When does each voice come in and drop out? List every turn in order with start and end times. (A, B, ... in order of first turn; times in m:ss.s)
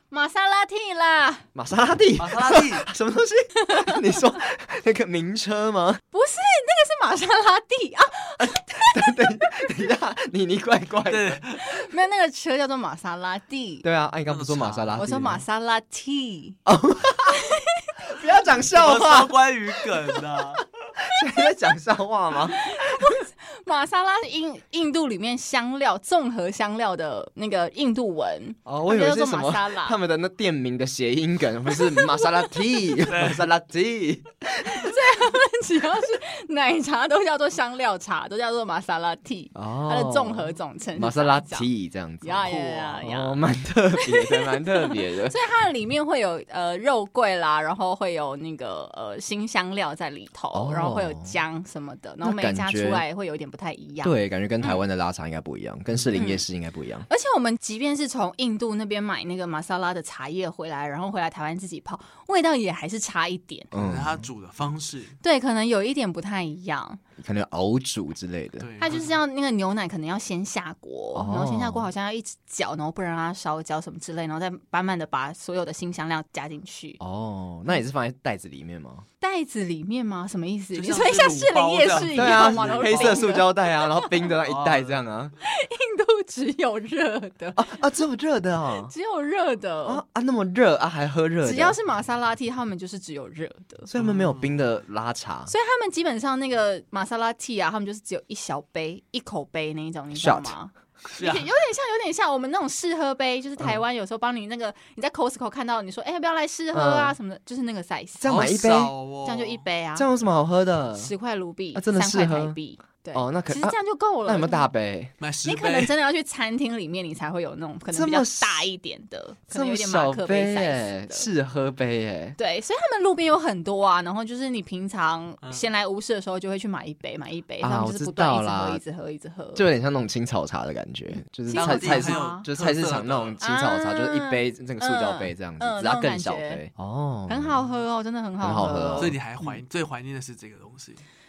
0:00.1-0:01.4 A
0:01.5-0:06.0 B
0:02.2-0:02.8 C
0:03.7-0:03.9 A
0:06.1-0:09.4 A
0:08.4-0:11.4 B
0:11.1-0:11.8 C
0:11.6-0:13.8 A
0:13.8-0:15.4 B
0:14.3-0:15.0 C
0:15.0-0:16.6 A
0:16.6-0:17.4 B
0:17.3-0:17.9 A
0:18.0-0:19.4 B
0:18.7-0:20.6 C
0:20.6-0:23.2 B
0:22.5-0:30.0 A
0:28.6-0:34.9 B
0:31.8-0:32.6 A
0:33.1-0:33.4 C
0:34.6-0:41.7 A
0:39.5-0:45.4 B
0:42.2-0:43.4 A
0:42.4-0:43.0 C
0:44.0-0:54.8 A
0:50.5-0:51.4 B
0:52.2-0:53.0 B
0:54.0-0:57.1 B
0:56.1-0:56.4 A
0:57.1-1:03.7 A
1:03.7-1:04.2 B
1:03.7-1:05.2 C
1:05.2-1:07.0 A
1:07.2-1:08.7 B
1:08.6-1:09.2 C
1:08.8-1:17.0 A
1:11.1-1:11.9 B
1:17.0-1:19.0 B
1:19.2-1:24.2 A
1:20.7-1:23.4 C
1:22.0-1:25.3 B
1:24.4-1:25.0 C
1:25.4-1:27.8 A
1:27.6-1:28.9 B
1:28.8-1:30.0 A
1:29.8-1:31.8 B
1:31.4-1:33.9 A
1:33.9-1:35.5 B
1:33.9-1:34.5 C
1:35.5-1:48.4 A
1:40.1-1:40.5 B
1:41.1-1:41.5 C
1:46.7-1:47.1 B
1:48.2-1:48.9 B
1:48.2-1:49.6 C
1:49.2-1:50.1 A
1:50.0-1:51.1 B
1:51.0-1:54.7 A
1:51.7-1:52.6 B
1:53.1-1:55.1 B
1:55.2-1:55.9 C
1:55.4-2:01.3 A
1:57.9-1:58.7 B
1:59.5-2:02.4 B
2:02.4-2:09.6 A
2:07.6-2:08.8 B
2:09.5-2:17.6 B
2:11.5-2:12.4 A
2:11.5-2:13.4 C
2:13.4-2:16.6 A
2:17.3-2:19.1 A
2:18.4-2:19.1 B
2:19.0-2:21.0 C